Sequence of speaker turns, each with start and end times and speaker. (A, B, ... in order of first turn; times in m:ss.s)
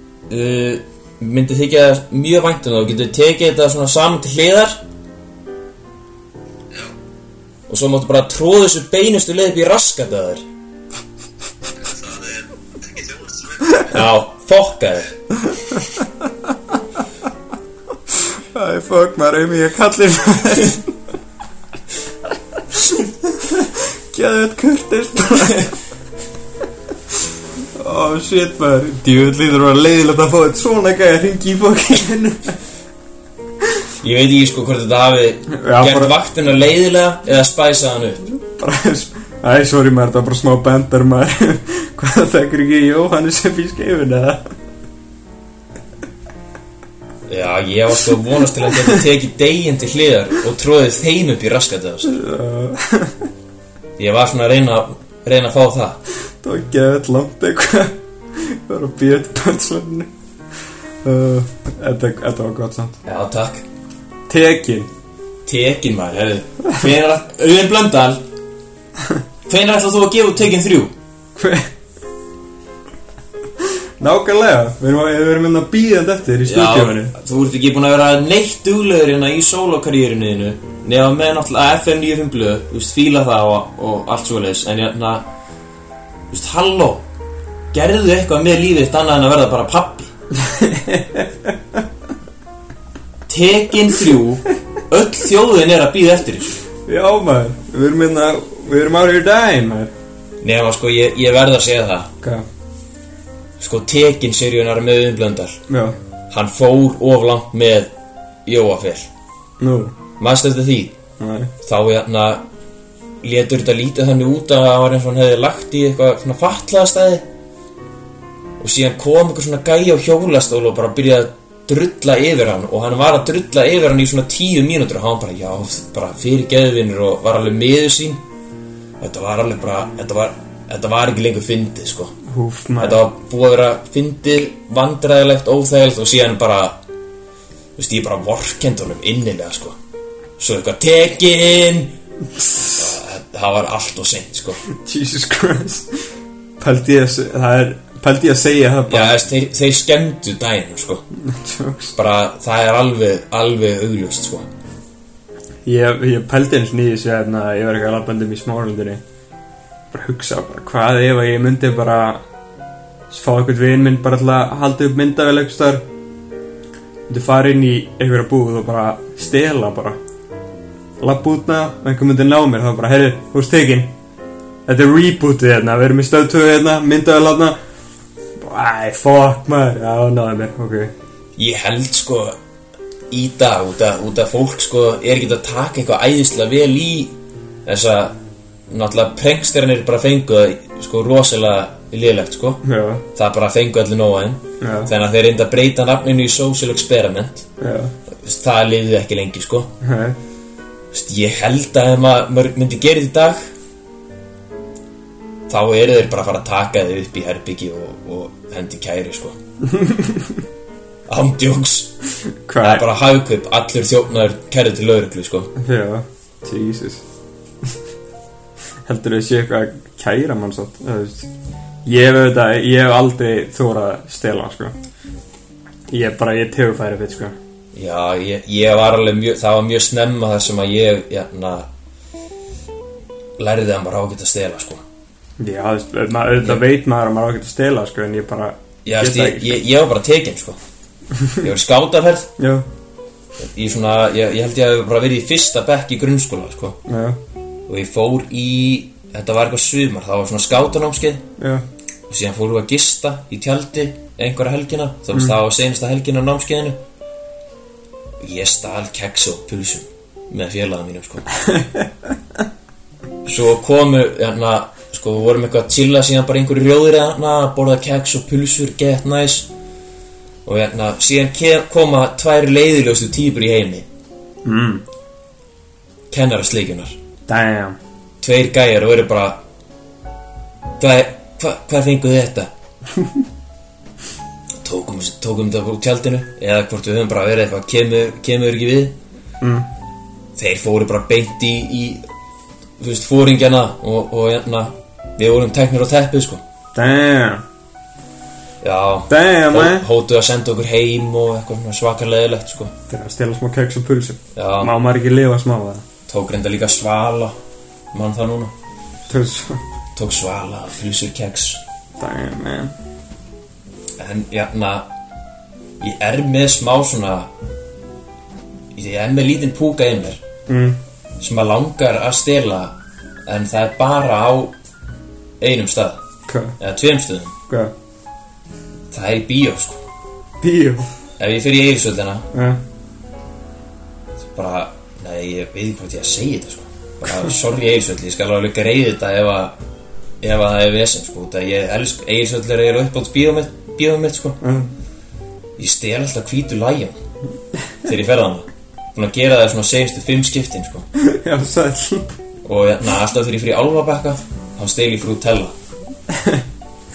0:00.3-0:04.8 A
0:07.7-0:10.4 A
0:11.7-0:14.0 B
0:13.9-0:15.1 A
0:18.5-0:20.8 C
0:22.8-0:25.7 C
0:27.8-0:32.6 C
0:34.0-0:38.2 A
0:35.5-0:36.1 C
0:38.4-0:44.4 C
0:47.3-0:52.2 A
0:52.0-0:53.2 C
0:54.0-0:56.0 A
0:56.4-1:00.1 C
1:01.0-1:03.0 C
1:03.0-1:03.6 A
1:04.3-1:04.9 C
1:05.4-1:08.2 A
1:09.5-1:10.9 A
1:11.4-1:11.7 C
1:14.0-1:17.1 C
1:16.4-1:25.2 A
1:26.3-1:27.0 A
1:27.7-1:30.1 A
1:30.4-1:31.5 C
1:33.3-1:36.6 A
1:36.8-1:39.9 C
1:40.4-1:42.1 A
1:43.6-1:45.6 A
1:45.7-1:46.0 C
1:46.3-1:47.9 A
1:48.4-1:49.1 A
1:49.6-1:49.9 C
1:50.2-1:50.9 A
1:51.2-1:51.5 C
1:51.6-1:52.4 A
1:53.2-1:57.2 A
1:58.6-2:08.2 A
2:09.0-2:12.1 A
2:12.3-2:13.0 C
2:12.8-2:16.8 A
2:17.8-2:19.8 A
2:20.4-2:22.0 A
2:22.6-2:24.6 A
2:24.7-2:25.9 C
2:26.6-2:29.2 C
2:28.9-2:31.0 A
2:31.2-2:32.0 C
2:31.9-2:34.5 A
2:35.6-2:39.0 C
2:39.9-2:42.2 C
2:43.1-2:45.8 C
2:47.1-2:50.0 C
2:51.0-2:53.9 C
2:54.7-2:57.6 C
2:58.4-3:00.9 C
3:01.4-3:02.4 A
3:03.1-3:08.2 A
3:08.7-3:12.6 A
3:12.6-3:13.0 C
3:13.1-3:17.5 A
3:14.6-3:14.9 C
3:17.6-3:17.9 C
3:18.1-3:19.7 A
3:19.8-3:20.2 C
3:20.9-3:23.4 A
3:25.5-3:29.4 A
3:29.7-3:30.4 C
3:31.1-3:31.9 A
3:32.4-3:32.8 C
3:32.6-3:35.5 A
3:35.6-3:37.0 C
3:38.8-3:41.3 C
3:41.8-3:44.7 C
3:45.9-3:47.4 C
3:47.7-3:51.7 A
3:53.4-3:54.8 A
3:55.4-3:59.6 C
3:58.8-4:00.6 A
4:01.4-4:02.3 A
4:02.4-4:02.6 C
4:03.4-4:06.8 A
4:06.9-4:07.2 C
4:07.7-4:11.2 A
4:11.4-4:11.6 C
4:12.1-4:16.8 A
4:18.2-4:21.2 A
4:21.5-4:21.8 C
4:23.2-4:29.5 A
4:30.4-4:33.8 A
4:34.4-4:34.8 C
4:36.1-4:37.0 A
4:37.3-4:37.8 C
4:38.2-4:39.4 A
4:40.8-4:42.5 A
4:44.6-4:49.0 A
4:49.4-4:49.7 C
4:50.4-4:52.0 A
4:52.8-4:56.4 A
4:56.7-4:57.4 C
4:58.6-5:02.7 A
4:59.1-4:59.9 C
5:02.9-5:05.8 C
5:04.3-5:04.7 A
5:06.1-5:07.4 A
5:07.9-5:08.5 A
5:09.1-5:09.6 C
5:09.9-5:11.6 A
5:12.0-5:12.7 C
5:14.0-5:14.9 A
5:15.8-5:17.3 A
5:18.7-5:20.2 A
5:20.5-5:20.8 C
5:21.2-5:24.5 A
5:25.4-5:26.0 A
5:26.3-5:26.6 C
5:26.6-5:27.3 A
5:28.9-5:29.8 A
5:30.4-5:30.9 C
5:31.2-5:32.2 A
5:32.3-5:32.6 C
5:34.3-5:39.6 A
5:40.2-5:44.4 A
5:44.4-5:44.7 C
5:45.6-5:47.0 A
5:47.8-5:50.8 A
5:51.0-5:52.1 C
5:52.4-5:55.5 A
5:56.1-5:56.4 C